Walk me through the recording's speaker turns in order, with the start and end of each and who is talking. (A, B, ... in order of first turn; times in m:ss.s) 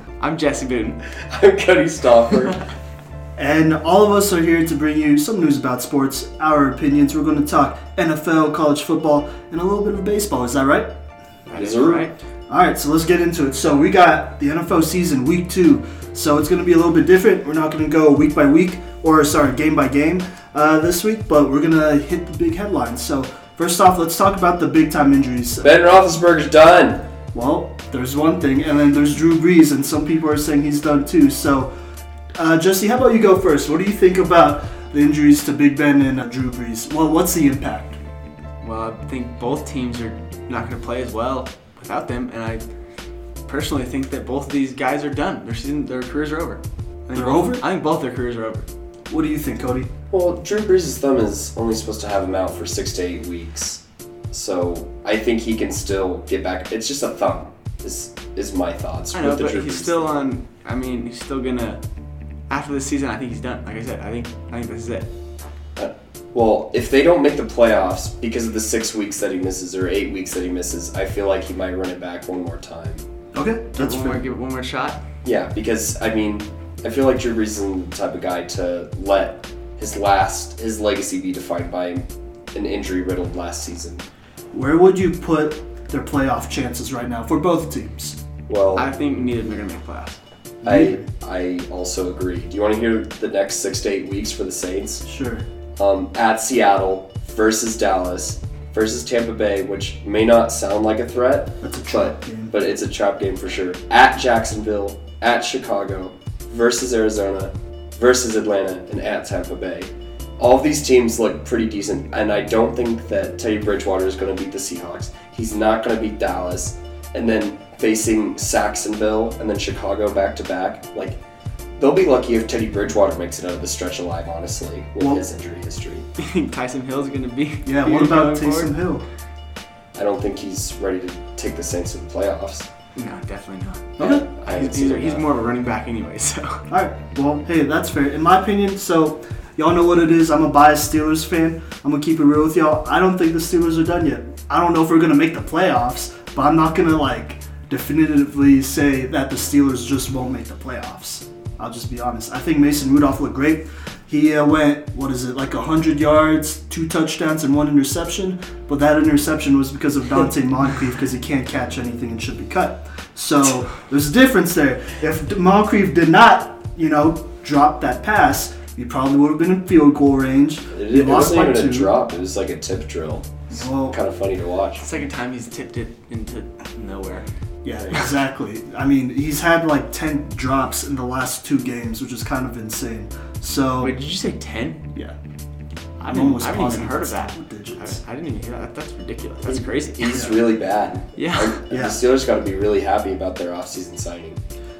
0:00.2-0:01.0 A
0:01.2-0:02.6 B
0:03.4-0:10.9 C
0:11.5-0:12.2 A
0:11.5-0:12.1 B
0:12.5-0:25.7 C
0:25.6-0:27.0 B
0:27.3-0:31.7 C
0:32.4-0:38.0 C
0:38.6-0:42.6 A
0:43.4-0:48.7 A
0:47.1-0:47.6 C
0:49.1-0:49.9 C
0:50.1-1:00.3 B
0:59.1-1:01.8 A
1:02.5-1:05.1 A
1:05.8-1:13.0 B
1:13.3-1:14.2 C
1:13.7-1:15.0 A
1:15.2-1:24.0 B
1:24.5-1:28.2 C
1:28.5-1:28.9 B
1:28.8-1:30.2 A
1:30.6-1:35.0 B
1:30.6-1:31.0 C
1:35.0-1:35.4 C
1:35.8-2:01.2 B
1:41.6-1:42.5 C
2:01.8-2:06.0 B
2:05.0-2:05.2 C
2:06.2-2:08.8 A
2:07.6-2:09.0 C
2:09.9-2:12.7 B
2:12.9-2:16.6 A
2:14.0-2:14.2 C
2:14.0-2:15.3 B
2:16.7-2:51.9 C
2:50.7-2:54.8 B
2:53.5-2:54.0 C
2:54.8-2:57.3 A
2:57.6-3:04.0 C
3:03.8-3:04.9 A
3:06.0-3:10.1 A
3:06.1-3:08.0 C
3:09.4-3:14.4 B
3:10.1-3:10.4 C
3:11.2-3:11.6 A
3:11.7-3:12.0 C